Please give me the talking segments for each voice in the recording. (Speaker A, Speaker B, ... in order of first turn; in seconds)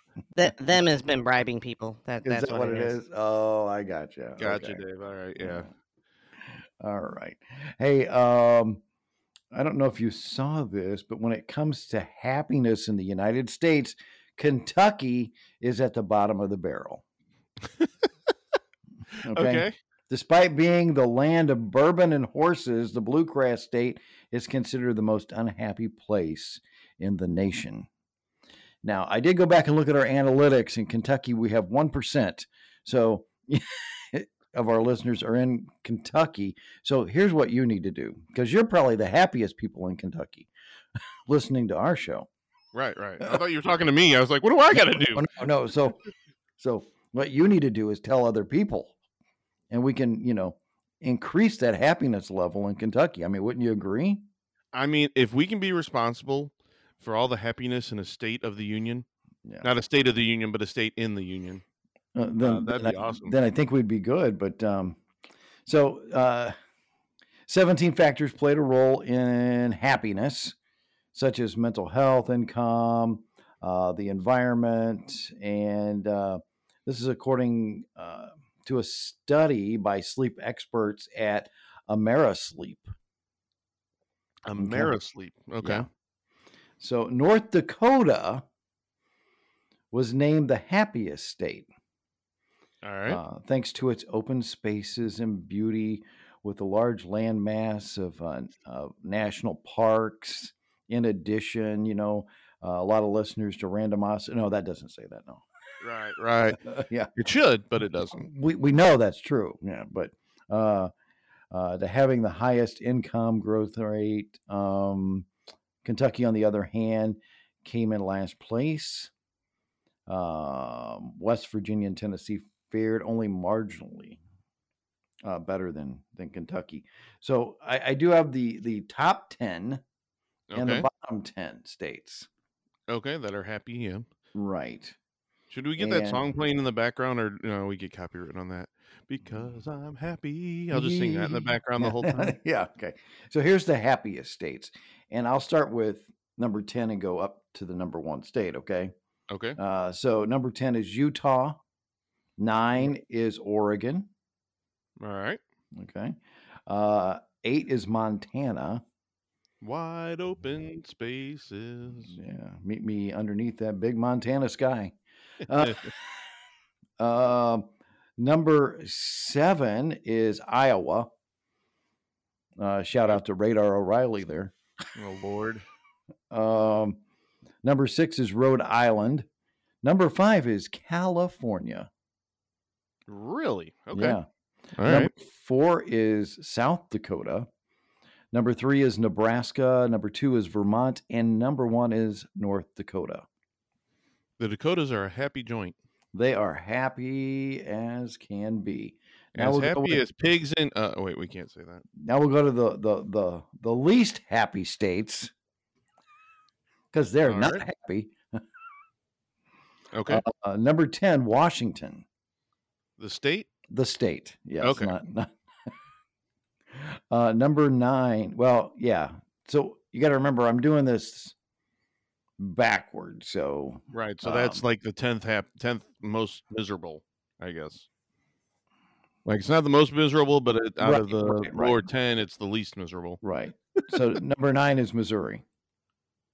Speaker A: 0.3-3.0
Speaker B: 2.2-4.8, 5.4-5.7, 6.8-8.8, 9.5-17.0, 19.2-27.9, 28.8-40.5, 41.3-42.3, 44.7-46.0, 46.6-48.9, 49.7-54.2, 62.1-65.0, 65.7-66.5, 67.5-70.5, 71.1-82.9, 84.6-84.9, 85.6-85.9, 86.8-88.4, 89.9-91.7, 93.1-105.4, 106.6-107.1, 108.1-110.9, 111.5-115.3, 115.8-119.1, 120.1-124.2, 125.2-129.8, 130.6-132.3, 134.3-134.9, 135.8-136.2, 140.7-148.9, 149.6-151.6, 152.4-154.1, 155.7-158.8, 162.1-166.2, 167.0-171.1, 172.6-174.5, 176.3-177.0, 177.6-179.3, 179.8-181.9, 183.9-184.2, 184.8-187.5, 188.3-193.2, 196.1-200.0, 202.0-205.3, 206.9-208.4, 210.1-212.0, 213.7-215.3, 216.7-221.3, 222.4-224.6, 230.8-231.8, 233.2-235.4
Speaker C: 4.4-5.7, 19.3-19.7, 42.7-45.3, 54.7-59.0, 59.6-61.6, 62.4-63.4, 84.5-85.9, 92.8-93.2, 105.8-106.6, 107.1-108.2, 130.5-130.9, 132.9-134.1, 135.5-142.3, 149.3-149.6, 155.0-155.4, 159.6-162.1, 165.6-165.9, 174.9-175.6, 183.1-184.2, 184.8-185.1, 194.4-195.7, 199.3-201.8, 207.3-207.6, 209.9-210.2, 213.0-213.5, 214.6-214.9, 223.9-227.9, 229.2-233.2